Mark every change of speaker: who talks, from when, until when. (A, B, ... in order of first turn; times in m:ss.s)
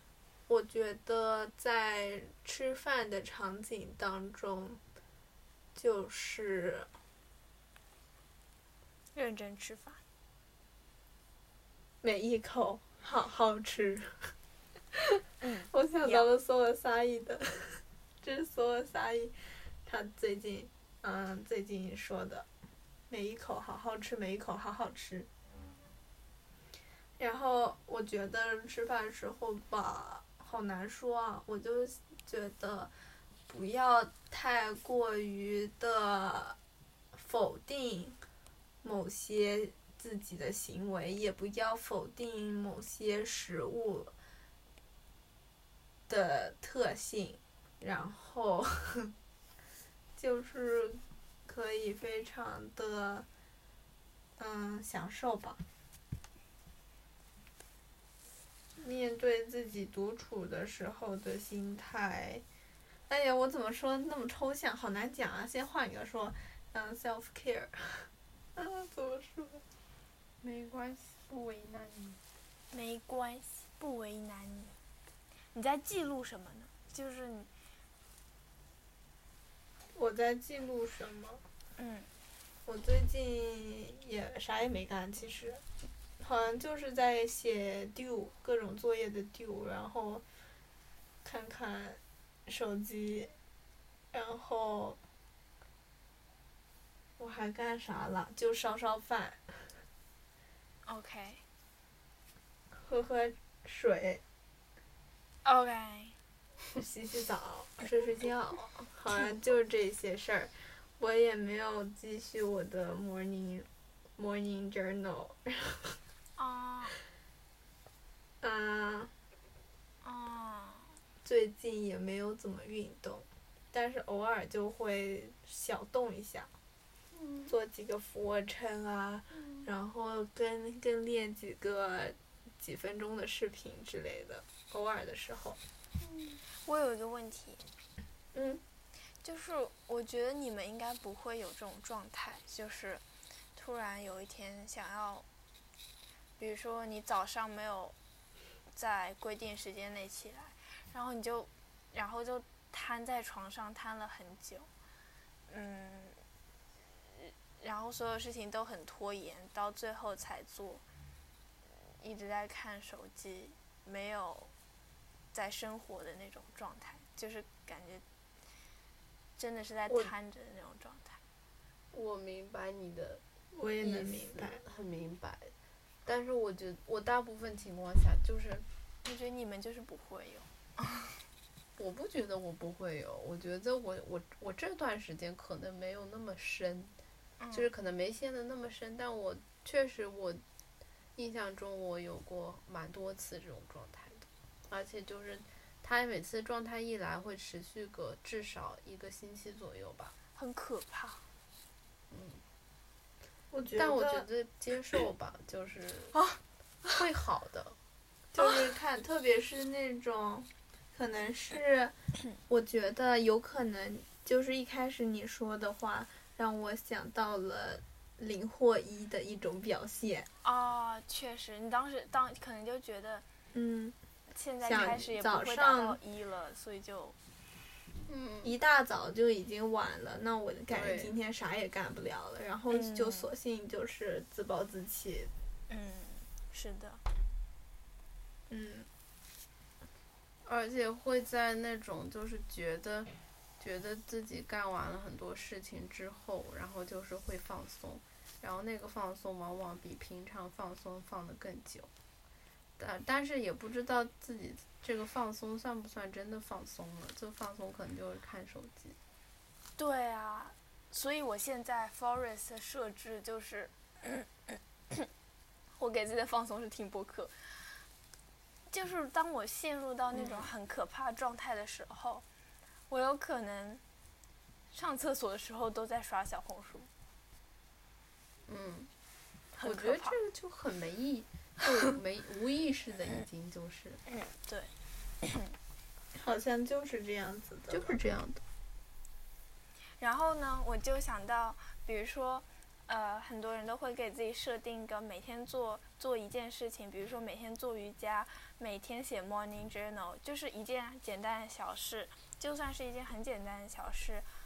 0:00.5-0:04.8 A
0:05.8-0:06.9 A
0:09.1-0:10.0 B
0:12.0-0:14.3 A
0:15.4-0:16.3 B
0:15.7-0:22.5 A
0:23.1-0:25.3 A
0:27.2-0:32.9 A
0:33.5-0:36.6 A
0:37.1-0:38.2 A
0:38.8-0:44.1 A
0:46.1-0:49.1 A
0:50.2-0:53.3 A
0:54.4-0:55.6 A
0:58.8-1:02.4 A
1:03.1-1:09.6 A
1:10.4-1:12.2 C
1:12.7-1:14.8 B
1:15.5-1:17.5 B
1:19.9-1:21.4 A
1:21.8-1:22.1 B
1:22.7-1:25.6 A
1:26.2-1:30.2 A
1:31.2-1:33.3 A
1:34.1-1:35.0 A
1:37.2-1:39.8 A
1:40.8-1:41.4 B
1:42.8-1:44.2 A
1:45.4-1:46.2 B
1:46.8-1:56.0 A
1:56.4-1:57.0 B
1:58.4-1:59.1 A
2:00.0-2:01.0 B
2:01.2-2:06.5 A
2:07.1-2:07.5 C
2:07.5-2:15.6 A
2:16.0-2:16.4 C
2:16.6-2:17.7 B
2:18.3-2:18.6 A
2:19.2-2:23.0 B
2:23.6-2:25.3 B
2:26.4-2:28.0 B
2:28.7-2:34.7 B
2:35.5-2:36.2 B
2:37.0-2:40.8 B
2:41.9-2:44.5 B
2:45.3-2:48.0 B
2:49.4-2:51.2 B
2:51.9-2:53.2 C
2:53.5-2:54.6 A
2:53.8-2:55.5 C
2:56.0-2:58.6 C
2:59.0-3:01.2 B
3:01.8-3:06.9 C
3:07.4-3:07.7 B
3:07.5-3:10.4 C
3:11.2-3:20.2 C
3:20.4-3:21.2 B
3:22.1-3:22.4 C
3:23.5-3:24.3 A
3:23.8-3:26.2 C
3:26.9-3:27.8 C
3:28.3-3:32.0 A
3:32.5-3:40.3 A
3:40.4-3:43.2 B
3:43.5-3:44.0 A
3:44.3-3:47.2 B
3:44.6-3:46.0 A
3:48.1-3:48.5 C
3:48.4-3:55.3 A
3:50.7-3:51.1 C
3:52.7-3:53.3 B
3:55.7-3:57.0 B
3:58.5-3:58.9 A
4:00.4-4:11.9 C
4:12.8-4:19.0 C
4:19.8-4:25.1 B
4:25.7-4:27.9 B
4:28.7-4:32.2 B
4:30.2-4:30.5 A
4:32.9-4:33.8 B
4:34.7-4:36.9 B
4:38.5-4:38.9 C
4:39.6-4:40.2 B
4:39.6-4:44.0 C
4:44.1-4:45.6 B
4:46.1-4:48.0 A
4:47.7-4:48.4 C
4:50.0-5:04.3 B